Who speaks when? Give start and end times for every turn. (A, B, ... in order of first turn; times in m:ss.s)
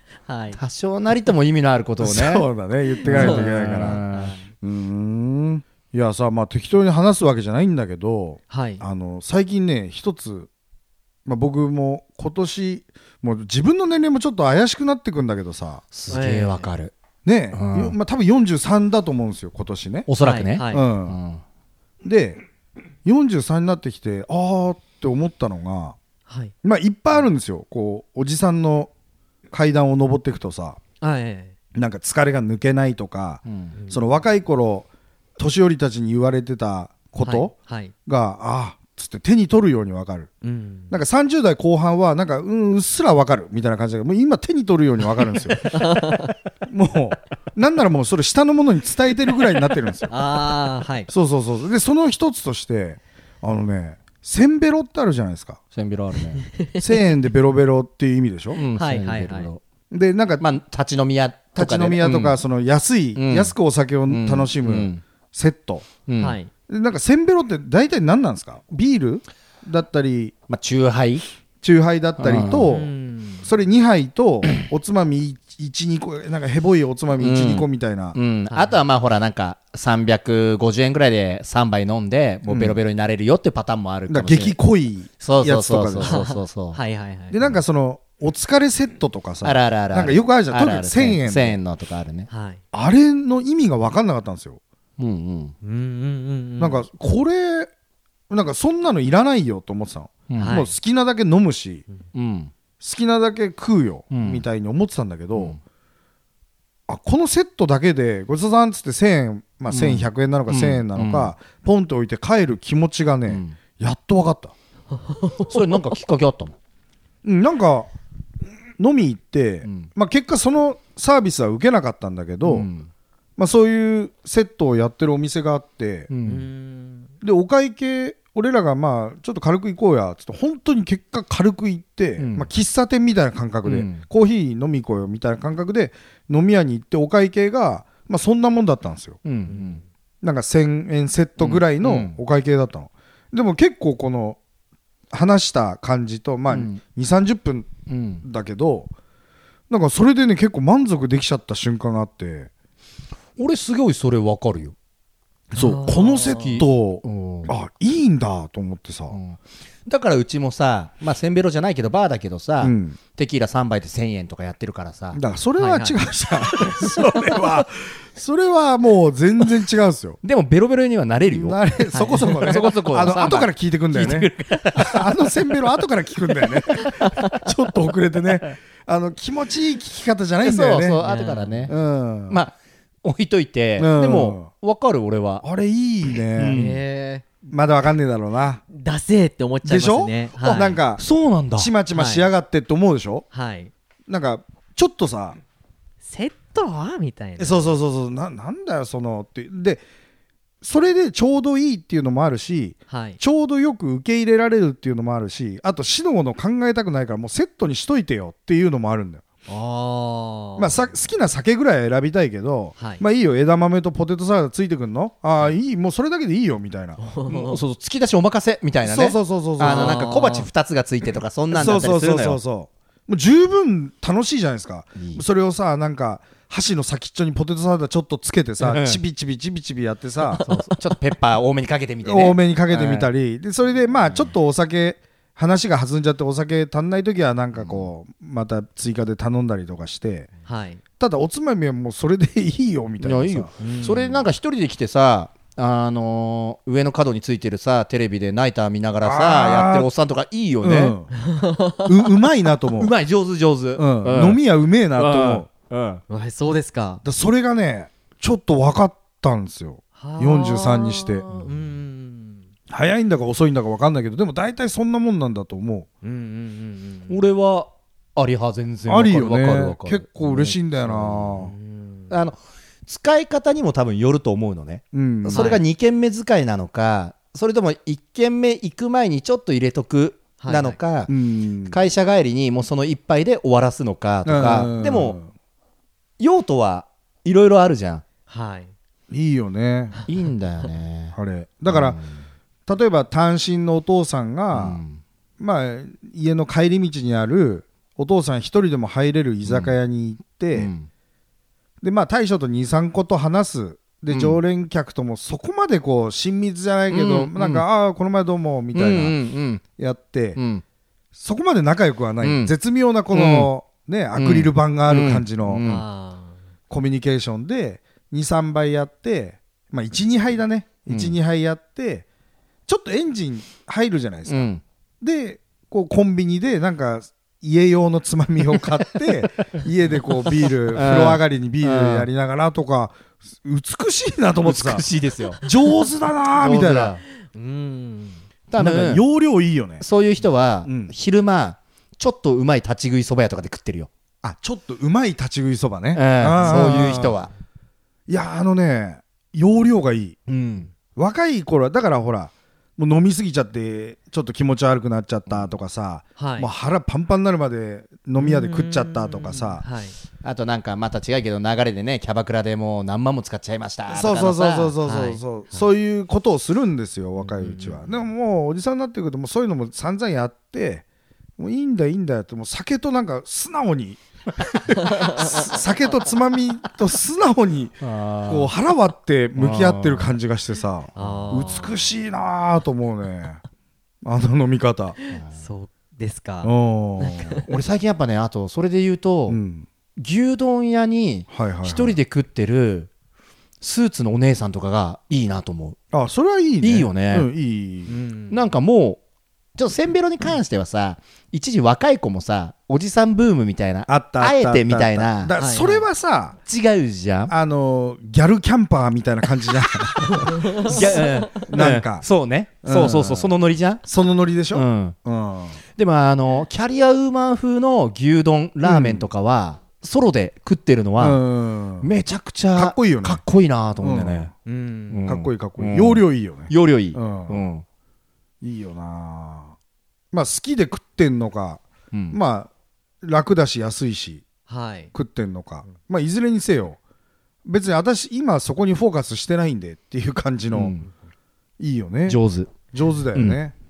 0:00.3-0:00.6 A
0:00.6-0:02.5 B
0:02.0-0:04.0 C
0:03.0-0:04.4 B
0:03.1-0:04.5 A
0:04.6-0:10.5 C
0:08.5-0:08.8 A
0:11.2-0:15.8 C
0:15.9-0:16.9 B
0:16.1-0:16.7 A
0:17.2-0:20.1 C
0:17.5-0:18.0 B
0:20.1-0:21.4 B
0:20.2-0:20.8 A
0:20.7-0:21.2 C
0:22.0-0:22.4 C
0:23.0-0:26.0 C
0:26.3-0:26.5 A
0:26.6-0:28.9 C
0:29.5-0:30.8 C
0:31.0-0:31.5 A
0:31.8-0:37.5 C
0:33.5-0:33.7 B
0:33.8-0:34.0 A
0:37.2-0:37.9 A
0:38.1-0:40.3 C
0:40.4-0:40.9 A
0:40.9-0:45.8 C
0:45.6-0:46.3 A
0:46.7-0:50.2 C
0:50.1-0:51.1 A
0:51.1-0:55.6 C
0:55.7-0:56.4 B
0:56.5-0:56.8 A
0:56.8-0:58.6 C
0:58.6-0:59.6 B
0:58.8-0:59.5 A
0:59.9-1:00.5 C
1:00.4-1:02.4 B
1:01.6-1:05.9 C
1:03.2-1:03.6 B
1:04.1-1:05.0 B
1:06.1-1:06.4 B
1:06.2-1:06.5 A
1:06.7-1:10.4 C
1:10.5-1:11.3 B
1:11.6-1:18.2 C
1:12.2-1:12.8 B
1:12.7-1:13.5 A
1:17.2-1:24.6 B
1:18.5-1:18.8 A
1:22.5-1:22.8 C
1:24.1-1:26.3 C
1:25.2-1:26.8 B
1:26.0-1:27.4 A
1:27.3-1:31.6 C
1:29.4-1:32.3 B
1:32.3-1:32.6 A
1:32.7-1:34.6 C
1:35.0-1:35.6 B
1:35.6-1:36.8 A
1:36.6-1:37.7 C
1:38.3-1:41.8 C
1:40.3-1:40.6 B
1:40.4-1:40.7 A
1:42.1-1:42.5 B
1:42.8-1:45.6 C
1:44.1-1:44.4 B
1:46.9-1:54.5 C
1:49.7-1:51.3 B
1:53.3-1:53.6 B
1:55.1-1:55.6 A
1:55.4-1:56.6 B
1:57.2-1:57.9 C
1:58.8-2:02.7 C
2:02.4-2:02.9 B
2:03.4-2:06.1 C
2:06.1-2:06.5 B
2:06.2-2:07.1 A
2:07.2-2:19.2 C
2:12.2-2:12.5 B
2:13.6-2:14.0 B
2:19.2-2:19.8 B
2:19.5-2:19.8 A
2:20.2-2:24.4 C
2:21.4-2:22.2 B
2:25.1-2:28.9 C
2:26.5-2:26.8 B
2:27.9-2:28.2 B
2:29.7-2:32.5 C
2:33.4-2:34.8 B
2:35.5-2:39.2 C
2:35.6-2:36.6 A
2:36.6-2:37.5 B
2:39.1-2:45.2 B
2:42.6-2:43.0 C
2:45.1-2:50.2 C
2:45.6-2:46.0 A
2:50.2-2:55.1 B
2:51.3-3:01.0 C
2:51.9-2:52.4 A
3:00.4-3:01.8 B
3:01.0-3:01.7 A
3:01.7-3:02.4 C
3:02.3-3:05.4 B
3:03.8-3:04.5 C
3:05.4-3:06.6 C
3:06.4-3:06.8 B
3:06.5-3:07.3 A
3:07.5-3:08.6 C
3:08.7-3:10.8 A
3:09.6-3:13.3 C
3:10.4-3:11.7 B
3:11.9-3:12.3 A
3:13.3-3:13.7 A
3:14.1-3:15.4 C
3:16.0-3:17.8 A
3:17.4-3:19.8 C
3:20.6-3:29.2 C
3:22.9-3:23.2 A
3:29.5-3:30.8 A
3:30.6-3:37.0 C
3:32.8-3:33.0 A
3:37.0-3:37.6 A
3:37.3-3:42.4 B
3:38.8-3:40.1 C
3:39.6-3:40.5 A
3:41.5-3:50.5 C
3:45.0-3:45.2 B
3:48.6-3:49.0 B
3:50.4-3:53.1 B
3:52.0-4:00.3 C
3:57.5-3:57.9 B
4:00.4-4:00.8 A
4:01.0-4:03.7 C
4:03.0-4:11.0 B
4:03.6-4:04.2 A
4:09.0-4:09.9 C
4:10.6-4:11.1 C
4:11.2-4:11.9 A
4:11.8-4:12.9 C
4:12.8-4:14.4 B
4:13.8-4:15.5 C
4:15.0-4:16.0 B
4:16.1-4:17.0 A
4:17.0-4:21.3 C
4:20.0-4:22.5 A
4:22.7-4:25.9 C
4:26.0-4:27.2 A
4:27.1-4:31.5 B
4:28.9-4:31.5 C
4:31.5-4:32.1 A
4:32.1-4:41.1 B
4:34.9-4:35.6 C
4:35.3-4:35.6 A
4:40.4-4:40.8 A
4:41.1-4:41.8 C
4:41.7-4:45.2 B
4:44.2-4:45.3 C
4:46.2-4:48.0 B
4:48.3-4:48.7 A
4:49.1-4:50.0 C
4:50.1-4:51.2 B
4:51.2-4:52.0 C
4:51.7-4:52.2 B
4:52.7-4:54.8 C
4:54.5-4:55.0 B
4:55.4-5:00.7 C
4:59.4-4:59.8 B
5:00.5-5:00.9 B
5:01.8-5:09.2 C
5:04.1-5:04.4 B
5:06.9-5:07.6 B
5:08.7-5:09.6 B
5:09.8-5:10.4 C
5:10.4-5:10.6 B
5:11.1-5:15.7 C
5:12.2-5:12.5 B
5:13.1-5:13.5 B
5:14.2-5:15.8 B
5:15.6-5:16.4 A
5:16.7-5:22.1 C
5:20.9-5:21.2 B
5:22.7-5:24.5 C
5:24.3-5:24.6 B
5:25.0-5:34.9 C
5:30.1-5:32.1 B
5:34.4-5:35.4 B
5:35.4-5:37.0 C
5:36.4-5:37.0 B
5:37.3-5:38.2 A
5:38.5-5:39.0 B
5:38.6-5:39.8 C
5:39.8-5:43.9 B
5:40.6-5:40.9 C
5:44.2-5:47.2 C
5:45.9-5:47.3 B
5:48.1-5:50.2 C
5:50.3-5:50.7 B
5:51.0-5:59.6 C
5:56.2-5:56.5 A
5:58.2-6:00.0 A
6:00.2-6:04.8 B
6:03.9-6:10.8 C
6:04.8-6:05.6 A
6:07.4-6:07.8 B
6:11.4-6:23.4 C
6:14.8-6:15.5 A
6:17.8-6:18.5 B
6:19.4-6:20.1 B
6:21.0-6:21.6 B
6:21.0-6:21.8 A
6:24.0-6:25.0 C
6:25.0-6:27.4 A
6:26.4-6:27.4 C
6:27.5-6:29.4 B
6:29.3-6:29.7 C
6:30.0-6:32.9 B
6:31.3-6:32.0 C
6:33.6-6:35.8 B
6:35.9-6:37.9 C
6:36.6-6:37.3 B
6:37.9-6:38.4 A
6:38.3-6:39.0 B
6:39.6-6:45.3 B
6:43.9-6:46.4 C
6:45.4-6:45.9 A
6:46.5-6:47.3 B
6:47.3-6:52.1 C
6:50.3-6:51.4 A
6:50.6-6:53.8 B
6:52.6-6:55.6 C
6:54.5-6:55.0 B
6:55.7-7:01.2 B
6:58.6-6:59.1 C
7:01.0-7:01.9 C
7:01.8-7:04.3 B
7:02.5-7:03.2 C
7:03.8-7:04.3 C
7:04.5-7:05.0 A
7:04.9-7:07.6 B
7:05.1-7:07.4 C
7:08.4-7:09.6 C
7:10.1-7:12.5 C
7:11.9-7:12.2 B
7:13.0-7:14.3 C
7:14.5-7:14.9 A
7:14.9-7:16.8 C
7:17.4-7:20.8 C
7:20.5-7:20.9 B
7:21.6-7:23.6 C
7:22.1-7:22.6 B
7:23.1-7:23.4 B